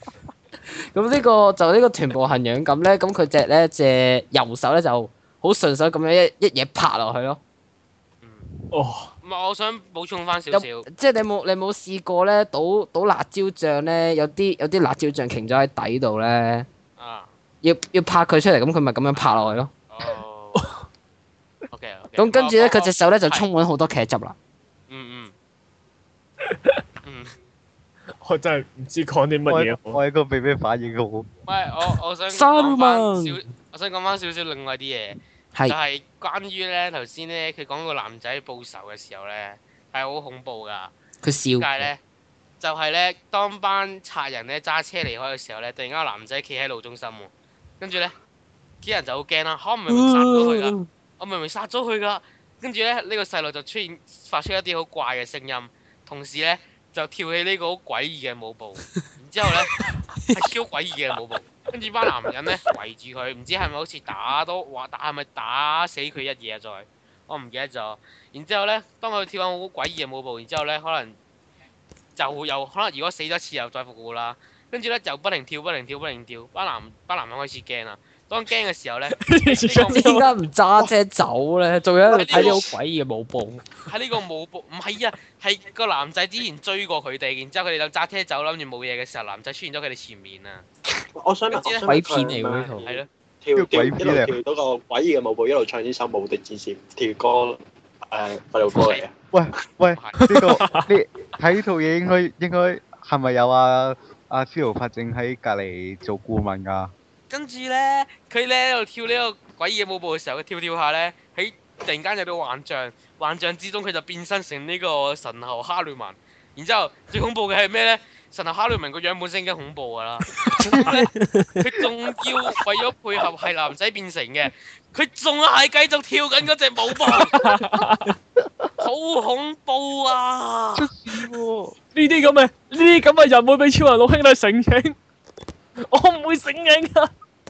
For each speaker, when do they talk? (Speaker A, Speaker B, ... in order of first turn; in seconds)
Speaker A: 0.9-7.4, 10.5-16.6, 17.6-19.7, 22.2-24.3, 32.3-33.5, 41.2-41.9, 49.9-50.9, 60.2-60.4, 79.9-83.8, 91.8-92.9, 120.7-121.6
Speaker B: 8.2-8.5, 9.2-10.8, 17.0-17.3, 19.1-20.7, 21.7-23.4, 24.9-25.3, 27.0-27.3, 31.5-40.9, 41.6-42.0, 42.6-48.1, 48.8-59.8, 60.3-71.2, 72.2-80.1, 82.0-82.7, 83.8-90.6, 91.5-91.9, 92.8-93.1, 98.7-99.0, 99.9-100.3, 107.3-127.4, 128.8-130.9
Speaker C: 8.7-9.1, 26.4-26.8, 28.2-30.0, 79.2-80.3, 100.2-100.9, 127.3-128.1, 131.9-135.0, 135.8-137.1
Speaker D: 29.5-31.3, 93.5-94.3, 99.3-106.9, 130.7-131.8
Speaker E: 82.3-82.6, 91.2-97.6, 98.1-99.1